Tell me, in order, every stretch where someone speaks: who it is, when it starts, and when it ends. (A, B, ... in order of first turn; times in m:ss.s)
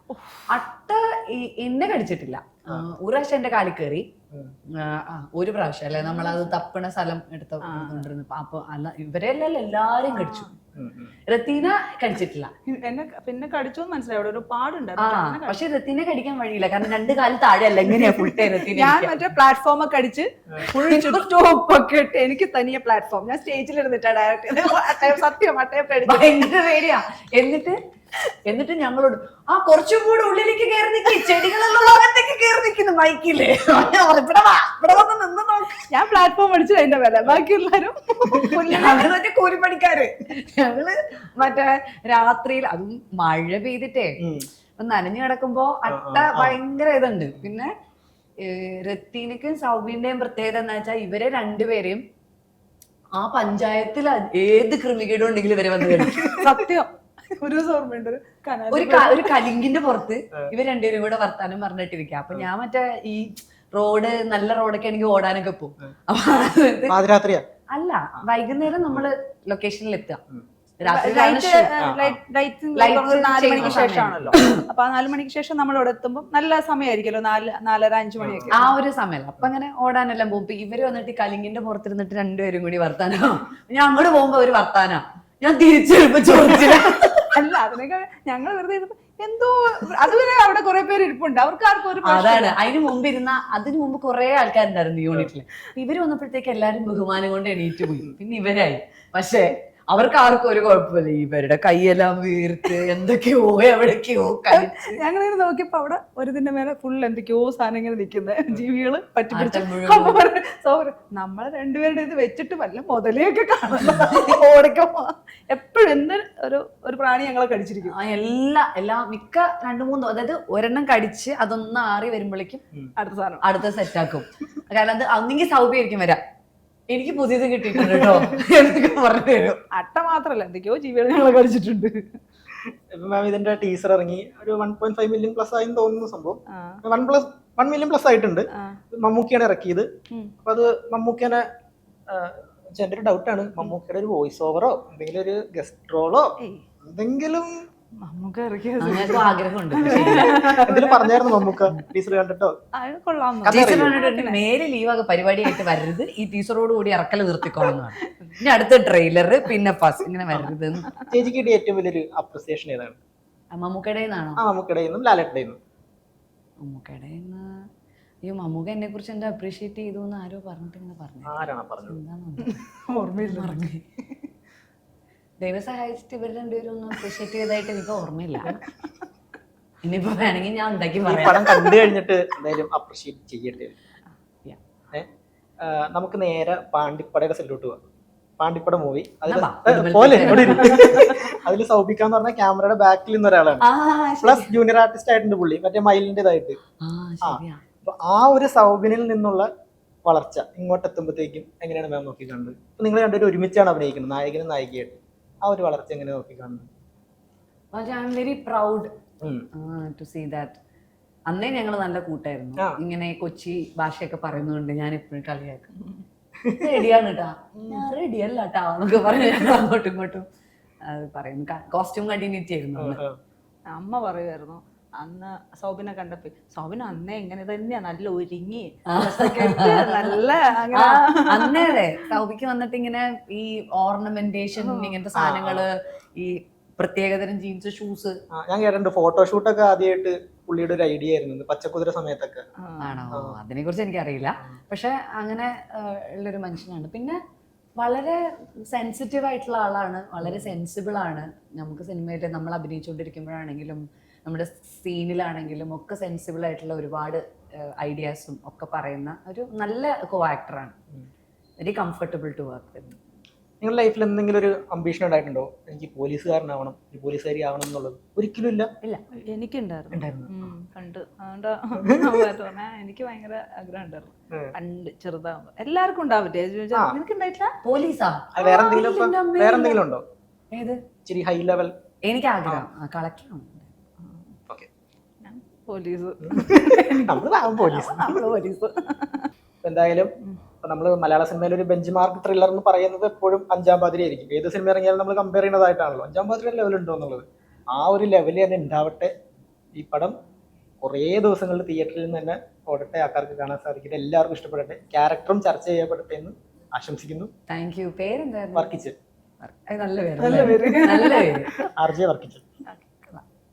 0:00.1-0:00.5 A
0:00.5-0:04.1 B
0:04.8-0:10.5 B
0:06.0-0:06.5 A
0:07.6-0:08.1 A
0:10.1-0:10.5 A
0:10.8-0:11.2 C
0:11.3-0:12.5 B
0:12.7-0:15.6 A
0:15.0-0:19.2 B
0:18.3-0:26.4 A
0:20.7-0:21.2 B
0:26.0-0:27.8 B
0:28.4-0:35.9 B
0:35.9-0:39.1 A
0:38.5-0:44.2 B
0:44.2-0:44.5 C
0:44.8-0:47.7 B
0:45.9-0:46.6 C
0:48.4-0:52.0 B
0:53.2-0:56.6 B
0:56.0-0:56.4 C
0:56.3-0:59.3 A
0:58.7-1:07.0 B
1:06.9-1:07.4 C
1:07.7-1:10.2 B
1:10.8-1:11.7 B
1:10.8-1:18.7 A
1:11.8-1:12.2 C
1:12.8-1:14.6 B
1:13.6-1:14.3 C
1:18.2-1:18.6 C
1:18.5-1:27.3 B
1:27.3-1:32.7 A
1:32.0-1:45.0 B
1:44.5-1:58.0 A
1:49.3-1:50.2 B
1:53.8-1:54.4 B
1:57.8-2:02.6 B
2:03.0-2:03.4 A
2:03.4-2:06.2 B
2:06.9-2:09.6 B
2:07.8-2:08.2 C
2:09.7-2:12.2 A
2:12.6-2:19.9 C
2:16.5-2:16.8 A
2:18.5-2:18.8 A
2:20.4-2:21.4 C
2:22.1-2:26.3 C
2:26.4-2:26.6 A
2:26.8-2:27.6 C
2:28.0-2:31.5 A
2:28.8-2:30.4 B
2:29.9-2:32.5 C
2:32.8-2:34.4 A
2:33.4-2:40.9 B
2:33.5-2:34.0 C
2:37.6-2:38.4 A
2:41.1-2:43.0 C
2:43.5-2:44.4 B
2:44.4-2:45.6 C
2:46.6-2:47.6 B
2:48.2-2:52.6 B
2:51.3-2:52.0 C
2:52.4-2:53.7 A
2:53.2-2:53.8 B
2:55.4-2:58.6 B
2:59.8-3:01.8 B
3:01.0-3:03.8 C
3:05.6-3:07.8 C
3:08.4-3:13.7 C
3:09.3-3:11.1 B
3:10.4-3:11.2 A
3:13.6-3:14.5 B
3:14.2-3:16.6 C
3:16.8-3:17.6 B
3:17.2-3:19.5 C
3:20.0-3:26.7 C
3:27.7-3:28.9 B
3:29.6-3:30.6 B
3:31.3-3:35.7 B
3:36.4-3:36.7 C
3:36.6-3:40.2 B
3:37.6-3:37.9 A
3:40.9-3:43.0 B
3:42.8-3:43.2 C
3:43.7-3:51.8 A
3:48.9-3:50.2 B
3:50.7-3:58.2 B
3:54.6-3:54.9 A
3:55.2-3:55.7 C
3:58.3-4:02.4 C
4:02.6-4:03.0 A
4:02.8-4:07.2 B
4:07.8-4:20.8 B
4:10.2-4:10.5 C
4:21.6-4:23.0 B
4:23.6-4:28.7 C
4:29.2-4:37.6 A
4:29.9-4:30.5 C
4:31.8-4:32.3 C
4:37.6-4:39.8 B
4:38.4-4:40.0 C
4:40.5-4:40.8 B
4:41.0-4:41.7 C
4:42.0-4:43.7 B
4:45.2-4:49.3 A
4:46.2-4:48.3 C
4:49.6-4:50.1 C
4:50.6-4:59.1 C
4:59.8-5:00.2 C
5:00.8-5:07.3 C
5:07.5-5:08.8 B
5:08.6-5:09.0 C
5:09.4-5:11.5 B
5:10.2-5:11.7 A
5:10.2-5:10.9 C
5:11.7-5:12.4 C
5:12.7-5:13.1 A